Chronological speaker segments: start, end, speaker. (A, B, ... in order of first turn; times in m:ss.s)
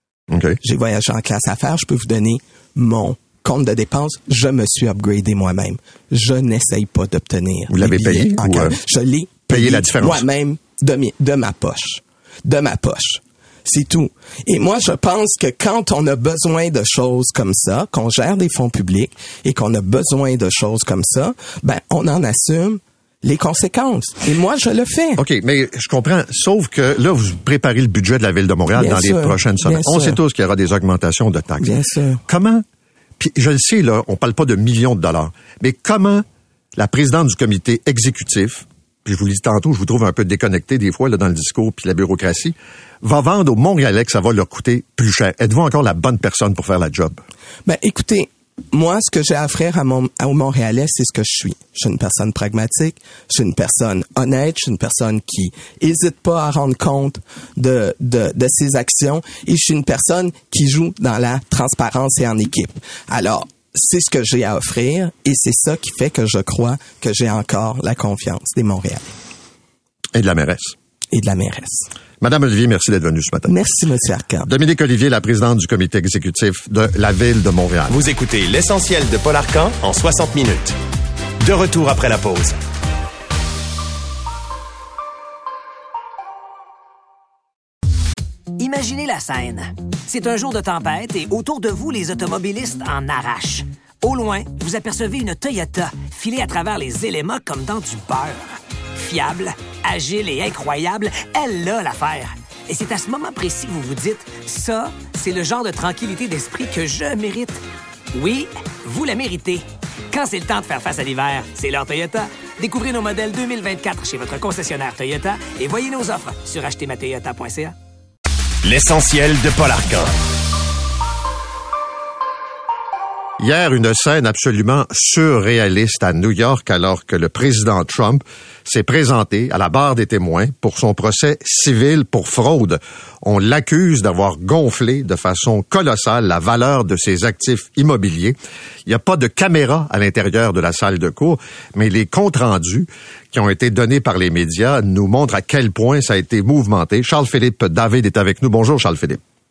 0:00.3-0:00.6 A
0:00.6-0:25.2 B
0:07.7-0:08.8 A
0:09.5-0:10.2 A
0:25.2-0:31.7 A
0:28.7-0:30.2 B
0:31.6-0:32.2 B
0:32.2-0:32.6 A
0:33.2-0:36.2 A
0:36.8-0:47.2 A
0:47.6-1:09.1 B
1:10.1-1:10.8 A
1:11.1-1:11.9 B
1:12.2-1:13.5 A
1:13.5-1:14.5 B
1:14.4-1:17.9 A
1:17.9-1:20.8 C
1:21.4-1:22.6 C
1:28.6-1:57.8 D
1:58.6-2:00.1 C
2:03.4-2:29.2 A